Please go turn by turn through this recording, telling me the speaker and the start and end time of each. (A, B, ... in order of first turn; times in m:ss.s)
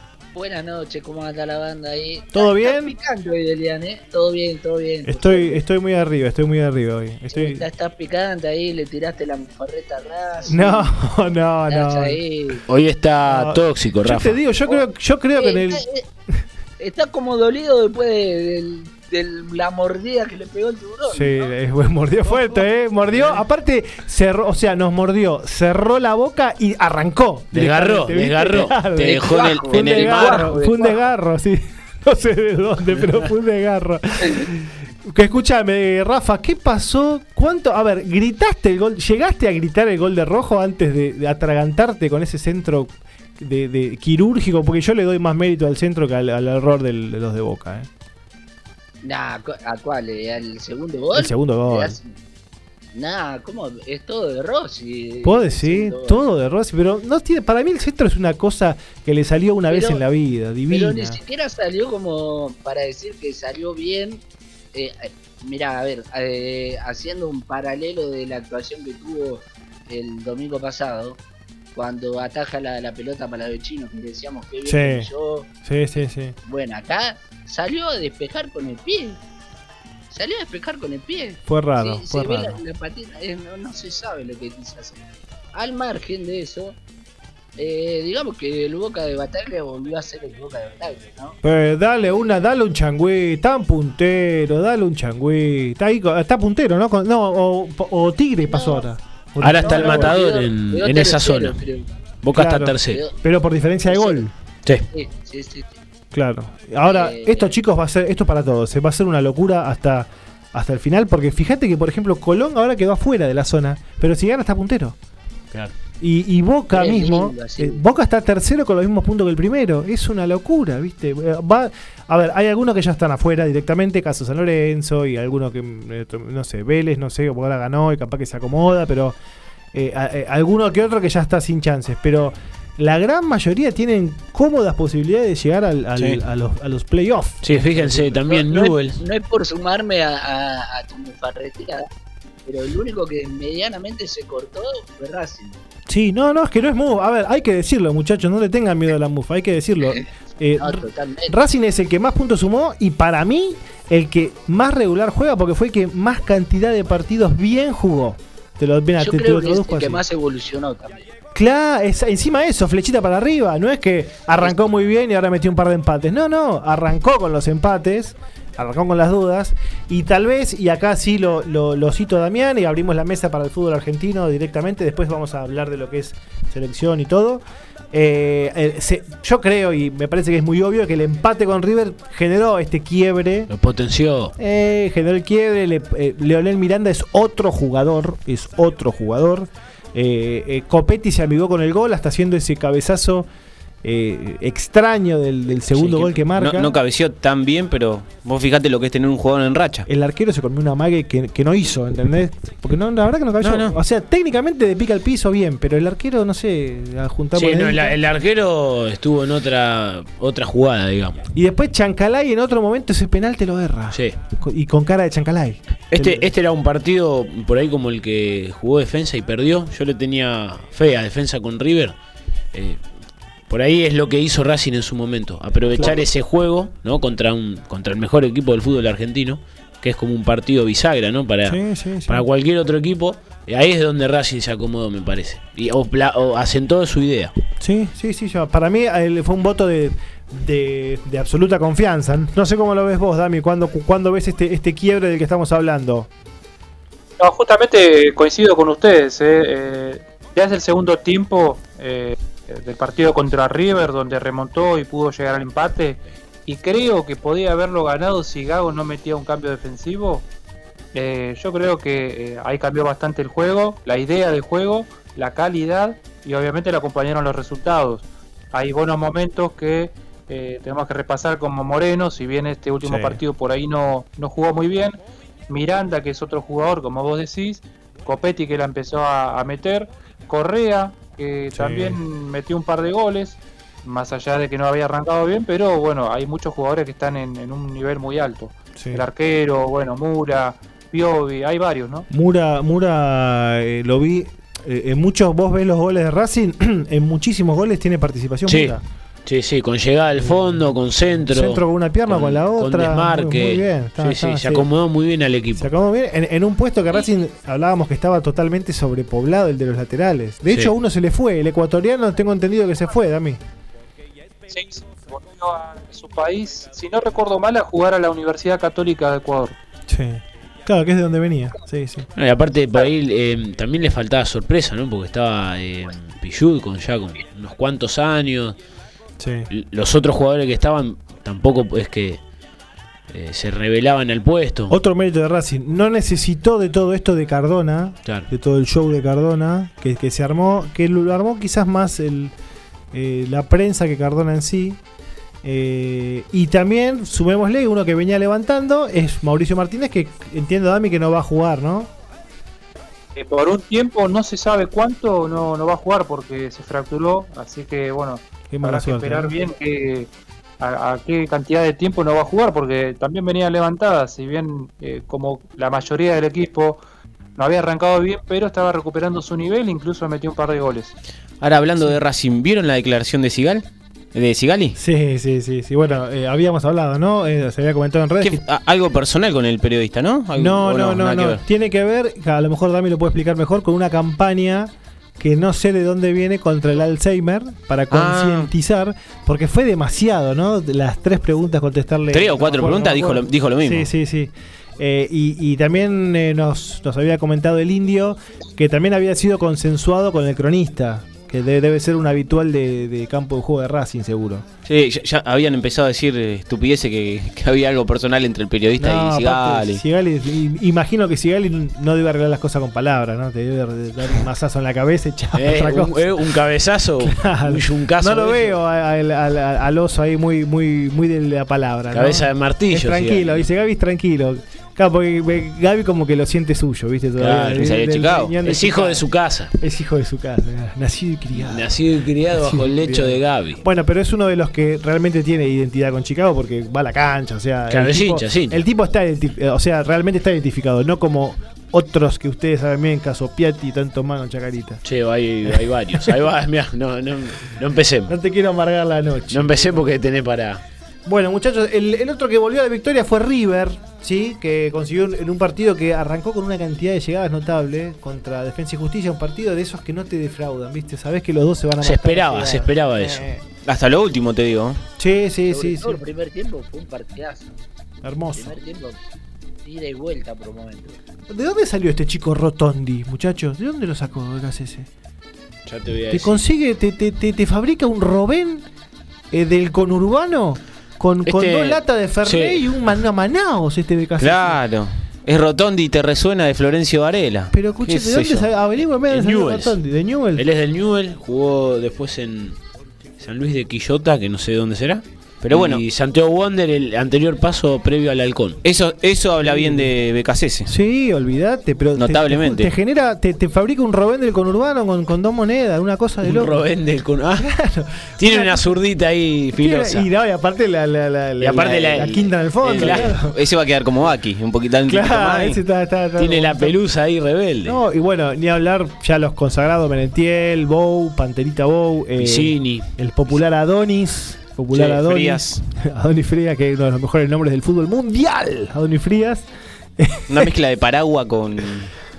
0:00.4-0:05.6 A
0:02.3-0:02.9 B
0:05.0-0:07.6 B
0:07.3-0:10.9 A
0:10.5-0:12.5 B
0:11.7-0:12.6 A
0:12.7-0:14.4 C
0:13.2-0:15.8 B
0:15.4-0:16.1 A
0:16.8-0:21.4 A
0:21.1-0:47.9 B
0:27.5-0:30.0 C
0:29.0-0:31.0 A
0:29.2-0:30.4 D
0:49.0-0:52.2 A
0:51.2-0:52.0 B
0:52.9-0:56.2 A
0:55.2-1:01.2 B
0:59.7-1:00.0 A
1:00.7-1:04.2 A
1:04.7-1:11.2 A
1:11.8-1:15.5 A
1:14.7-1:15.1 B
1:15.6-1:16.4 B
1:16.5-1:19.2 A
1:20.1-1:26.8 A
1:21.5-1:22.6 B
1:27.6-1:31.4 A
1:31.4-1:40.2 B
1:38.5-1:38.8 A
1:39.4-1:41.6 C
1:39.5-1:41.9 A
1:42.2-1:43.0 C
1:42.3-1:44.3 B
1:42.9-1:43.2 A
1:43.9-1:44.2 A
1:44.9-1:45.8 A
1:46.1-1:55.0 B
1:46.8-1:47.5 A
1:56.0-2:09.2 B
1:56.7-1:57.8 A
2:09.7-2:18.2 B
2:17.4-2:19.0 C
2:18.2-2:21.9 A
2:22.4-2:25.6 A
2:25.9-2:40.0 B
2:29.9-2:31.4 A
2:39.0-2:41.1 A
2:41.3-3:03.5 B
3:03.5-3:04.3 C
3:04.4-3:13.3 B
3:13.8-3:16.8 B
3:15.7-3:19.9 D
3:19.9-3:28.0 B
3:23.4-3:23.8 D
3:27.3-3:31.2 C
3:31.3-3:36.3 B
3:33.9-3:34.2 C
3:35.9-3:41.9 C
3:42.5-3:42.8 C
3:43.5-3:57.3 C
3:51.5-3:52.2 B
3:57.6-4:06.1 B
4:07.2-4:20.3 E
4:20.9-4:35.0 E
4:32.8-4:33.2 B
4:35.5-4:52.1 E
4:41.5-4:42.0 B
4:48.8-4:49.0 B
4:52.1-4:58.8 B
4:58.5-5:05.7 C
5:00.2-5:00.6 B
5:01.3-5:04.7 B
5:05.6-5:13.4 B
5:14.5-5:19.6 E
5:19.9-5:22.1 B
5:22.2-5:28.6 C
5:29.2-5:29.5 B
5:29.5-5:32.2 C
5:33.1-5:34.7 C
5:34.7-5:42.3 B
5:42.9-5:44.8 B
5:45.4-5:51.9 B
5:53.2-6:06.8 E
5:58.5-5:59.3 B
6:07.4-6:10.9 E
6:11.4-6:14.8 D
6:14.8-6:18.4 B
6:18.2-6:21.4 D
6:20.3-6:44.4 B
6:27.9-6:28.5 D
6:32.1-6:33.9 D
6:44.7-6:49.8 D
6:48.8-6:56.4 B
6:55.3-6:58.6 C
6:57.0-7:11.8 B
7:01.9-7:03.4 C
7:07.2-7:07.8 C
7:07.6-7:08.3 D
7:08.4-7:09.5 C
7:11.3-7:13.6 C
7:12.3-7:24.8 B
7:17.7-7:18.6 C
7:24.8-7:28.1 C
7:25.5-7:26.2 B
7:28.1-7:29.8 B
7:29.3-7:30.6 C
7:31.1-7:43.4 B
7:41.8-7:43.3 C
7:43.6-7:44.8 D
7:45.0-7:46.0 B
7:45.5-7:47.6 A
7:48.0-7:48.6 B
7:48.3-7:49.0 A
7:49.6-7:51.0 A
7:51.3-7:54.9 B
7:55.7-7:56.4 C
7:56.1-7:58.7 B
7:59.3-8:04.6 B
8:01.3-8:02.8 C
8:04.2-8:08.4 D
8:07.5-8:10.5 B
8:09.1-8:09.8 C
8:10.4-8:12.6 C
8:13.2-8:18.6 C
8:15.4-8:15.8 D
8:18.6-8:20.7 D
8:19.4-8:19.9 B
8:20.7-8:26.6 B
8:22.0-8:22.7 D
8:26.2-8:27.5 C
8:27.4-8:28.7 B
8:28.2-8:30.1 C
8:29.6-8:33.4 B
8:31.4-8:33.1 C
8:32.6-8:35.6 D
8:34.9-8:36.8 B
8:36.2-8:37.8 C
8:37.6-8:49.4 B
8:42.2-8:42.9 C
8:44.7-8:45.6 D
8:50.0-8:50.5 B
8:50.3-8:51.9 D